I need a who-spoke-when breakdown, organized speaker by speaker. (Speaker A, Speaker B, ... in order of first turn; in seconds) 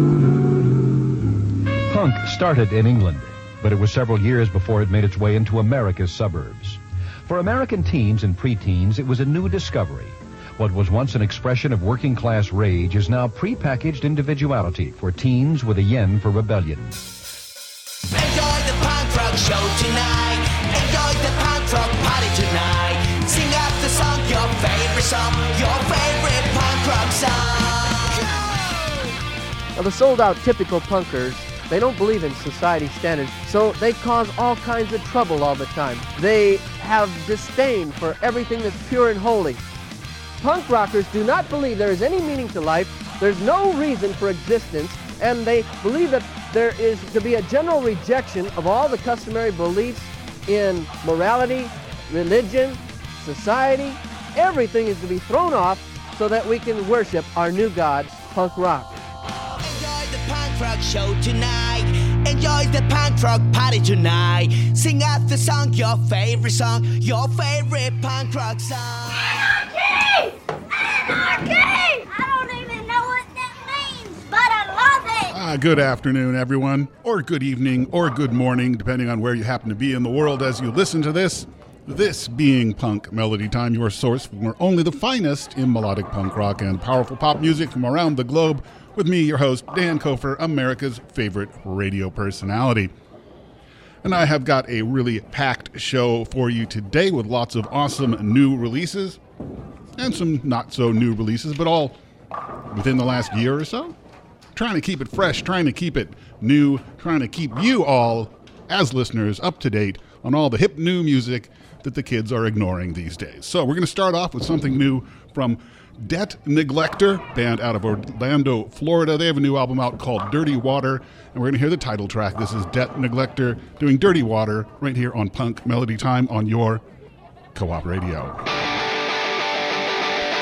Speaker A: 1.9-17.1
Speaker B: 18.1-28.1, 59.6-69.2
Speaker C: 29.8-39.6, 40.4-58.9
Speaker D: 69.3-75.3
Speaker E: 75.3-92.9, 94.0-99.2, 100.0-102.0, 102.7-104.0, 104.5-126.8, 127.5-128.4